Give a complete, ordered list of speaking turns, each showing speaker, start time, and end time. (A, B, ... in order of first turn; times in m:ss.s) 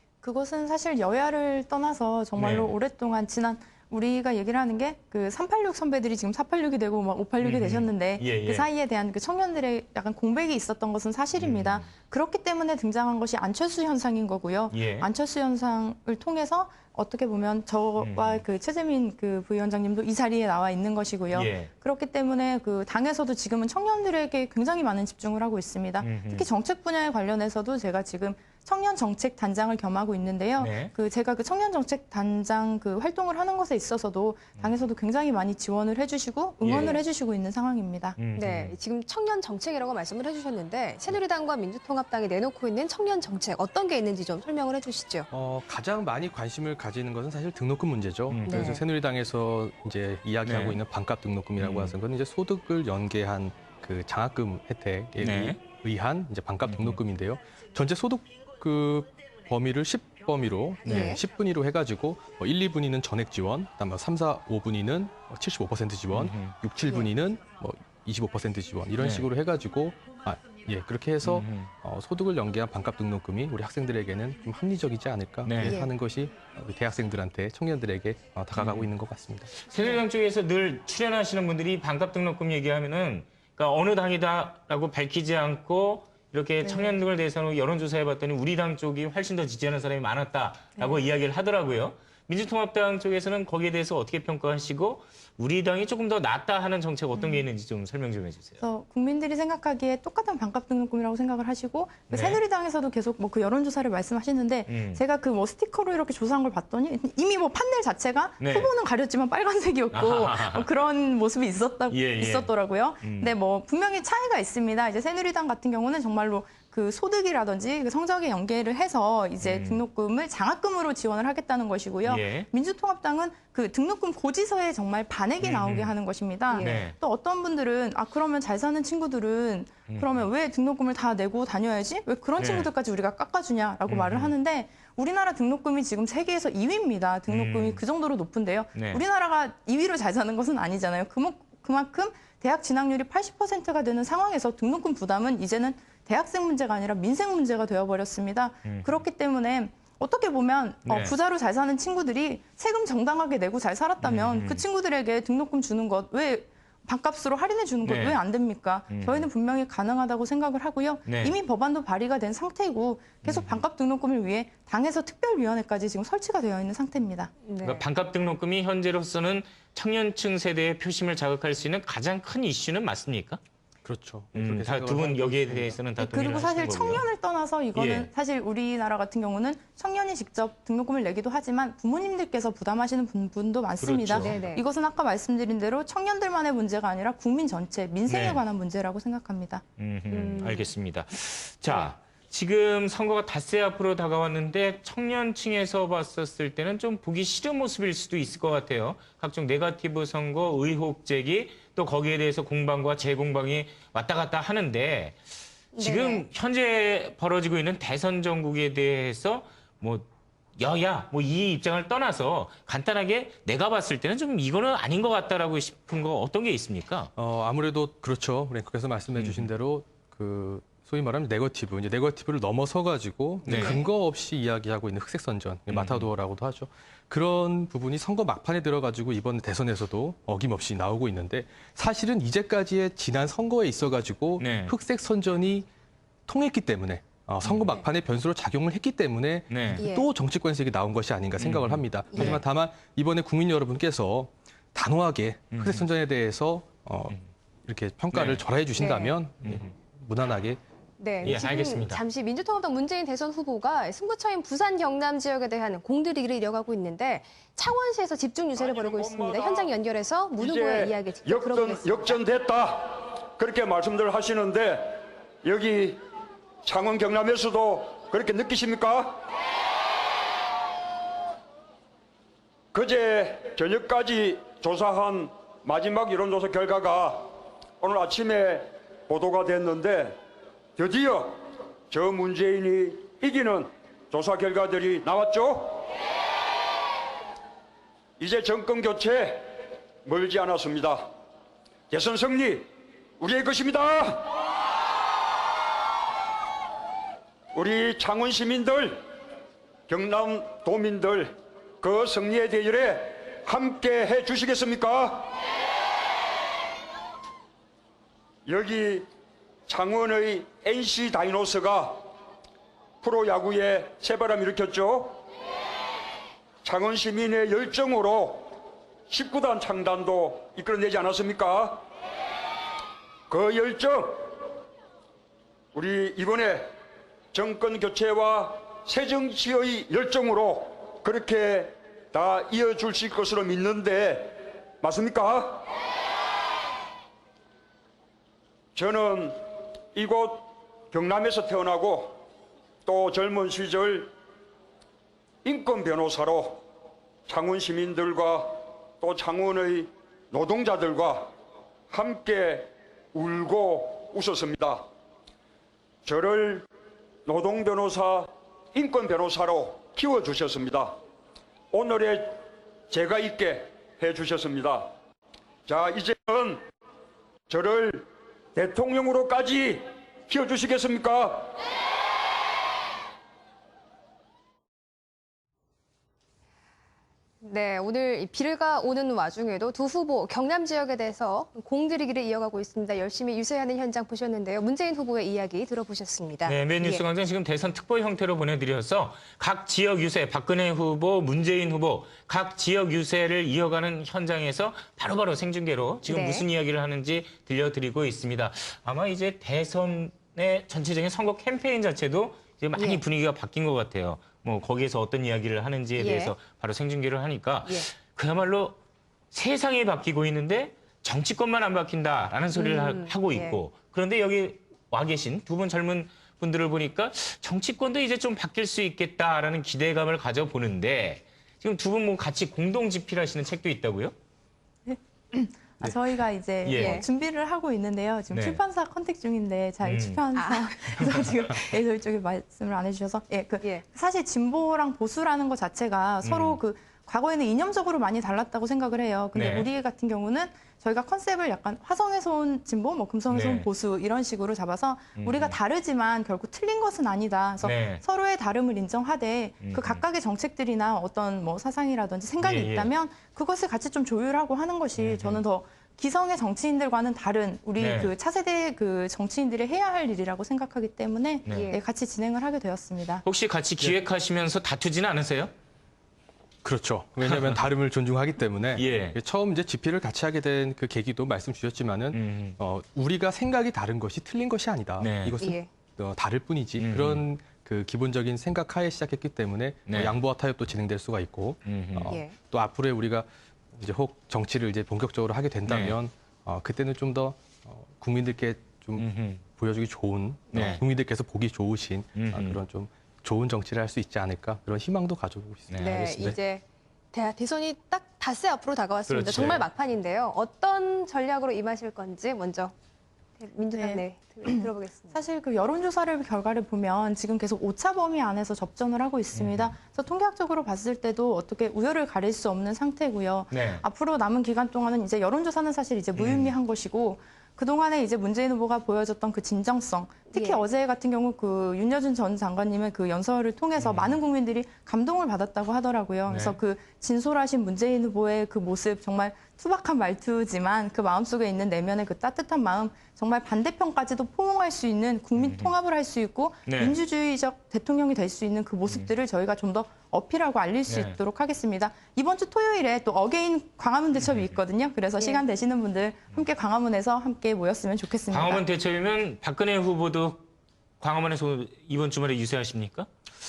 0:00.2-0:38.2 A
0:02.4-0:02.7 B
0:07.4-0:08.7 B
0:11.4-0:11.9 B
0:14.7-0:15.1 B
0:18.0-0:18.4 B
0:21.3-0:21.7 B
0:26.0-0:26.5 B
0:30.6-0:30.9 B
0:36.6-0:37.0 B
0:36.7-0:37.0 C
0:38.2-0:38.8 B
0:38.4-0:45.3 C
0:45.3-1:19.5 D
0:48.3-0:48.8 B
0:48.4-0:48.8 C
0:50.4-0:50.8 B
0:51.6-0:52.0 B
0:55.2-0:55.6 B
0:56.6-0:57.0 B
1:00.9-1:01.2 B
1:00.9-1:01.2 C
1:06.1-1:06.6 B
1:09.0-1:09.3 B
1:11.2-1:11.7 B
1:15.4-1:15.9 B
1:15.6-1:15.9 C
1:18.6-1:18.9 B
1:19.6-1:38.6 B
1:26.6-1:27.0 A
1:30.8-1:31.0 A
1:37.2-1:37.5 A
1:38.6-2:47.3 A
1:42.1-1:42.4 B
1:44.7-1:45.0 B
1:48.4-1:48.7 B
1:49.9-1:50.7 B
1:51.9-1:53.3 B
1:59.4-1:59.8 B
2:02.0-2:02.5 B
2:05.4-2:06.0 B
2:06.5-2:07.0 B
2:06.5-2:06.8 C
2:09.9-2:10.3 B
2:12.4-2:12.7 B
2:13.9-2:14.3 B
2:17.3-2:17.8 B
2:18.8-2:19.0 B
2:28.6-2:29.0 B
2:30.9-2:31.1 B
2:34.0-2:34.6 B
2:37.8-2:38.2 B
2:38.9-2:39.3 B
2:41.1-2:41.4 B
2:43.2-2:43.6 B
2:47.4-2:47.9 C
2:47.6-2:53.4 B
2:53.8-2:55.8 D
2:54.3-2:57.0 B
2:56.0-3:09.6 A
2:57.7-2:58.1 B
3:03.8-3:04.4 B
3:04.2-3:04.6 C
3:08.1-3:08.4 B
3:09.8-3:25.2 B
3:10.1-3:10.7 C
3:11.7-3:11.9 C
3:25.8-3:26.2 C
3:25.8-3:37.1 B
3:37.2-3:55.7 D
3:39.2-3:39.5 B
3:43.4-3:43.8 B
3:45.7-3:46.1 B
3:54.4-3:54.7 B
3:56.3-4:10.6 D
3:57.4-3:57.8 B
3:59.5-3:59.8 B
3:59.8-4:00.1 C
4:01.4-4:02.4 B
4:02.1-4:02.4 C
4:05.5-4:05.9 B
4:08.1-4:08.4 B
4:08.8-4:09.2 C
4:09.4-4:09.7 B
4:11.0-4:22.2 C
4:11.2-4:12.0 B
4:18.6-4:19.7 E
4:20.4-4:26.0 E
4:26.6-4:29.2 E
4:32.7-4:37.3 E
4:37.8-4:40.2 E
4:40.8-4:45.9 E
4:48.2-4:51.1 E
4:51.9-4:52.7 E
4:53.2-4:54.3 E
4:57.5-4:59.0 E
4:59.9-5:05.3 E
5:08.5-5:09.1 E
5:09.7-5:12.0 E
5:13.0-5:15.2 E
5:16.6-5:18.6 E
5:19.1-5:21.8 E
5:23.3-5:24.4 E
5:25.8-5:26.7 E
5:27.3-5:35.6 E
5:38.8-5:39.4 E
5:40.0-5:42.2 E
5:42.8-5:44.1 E
5:45.4-5:46.6 E
5:47.3-5:51.3 E
5:51.9-5:54.8 E
5:56.0-5:56.6 E
5:57.3-6:01.0 E
6:01.7-6:04.9 E
6:05.7-6:06.6 E
6:07.5-6:11.5 E
6:17.4-6:27.0 C
6:26.5-6:48.8 B
6:36.1-6:36.5 C
6:42.8-6:43.0 C
6:46.0-6:46.3 C
6:49.3-7:04.1 B
6:52.5-6:53.6 C
7:04.9-7:43.2 A
7:06.6-7:07.0 B
7:06.7-7:07.1 C
7:08.3-7:08.6 B
7:09.8-7:10.2 B
7:10.4-7:10.7 C
7:16.2-7:16.6 B
7:19.3-7:19.7 B
7:23.3-7:23.7 B
7:25.2-7:25.6 B
7:27.6-7:28.0 B
7:29.6-7:30.0 B
7:32.4-7:32.9 B
7:35.0-7:35.4 B
7:37.8-7:38.1 B
7:41.5-7:41.7 B
7:41.5-7:41.8 C
7:43.2-7:45.5 B
7:46.6-8:16.4 D
7:47.2-7:47.6 B
7:48.7-7:49.2 B
7:52.1-7:52.6 B
7:55.0-7:55.4 B
7:55.4-7:55.7 C
7:56.8-7:57.3 B
7:59.9-8:00.2 B
8:01.6-8:02.2 B
8:02.0-8:02.4 C
8:05.7-8:06.0 B
8:09.0-8:09.4 B
8:10.5-8:10.8 B
8:12.2-8:12.6 B
8:15.7-8:16.1 B
8:15.8-8:22.7 C
8:19.1-8:19.7 B
8:23.4-8:25.2 C
8:23.8-9:08.6 A
8:29.3-8:29.8 B
8:33.5-8:33.8 B
8:36.2-8:36.6 B
8:40.3-8:40.6 C
8:43.8-8:44.2 B
8:46.3-8:46.6 B
8:55.4-8:55.7 B
8:56.7-8:57.0 B
9:00.9-9:01.2 B
9:04.3-9:04.5 B
9:08.3-9:10.5 B
9:11.0-9:13.1 B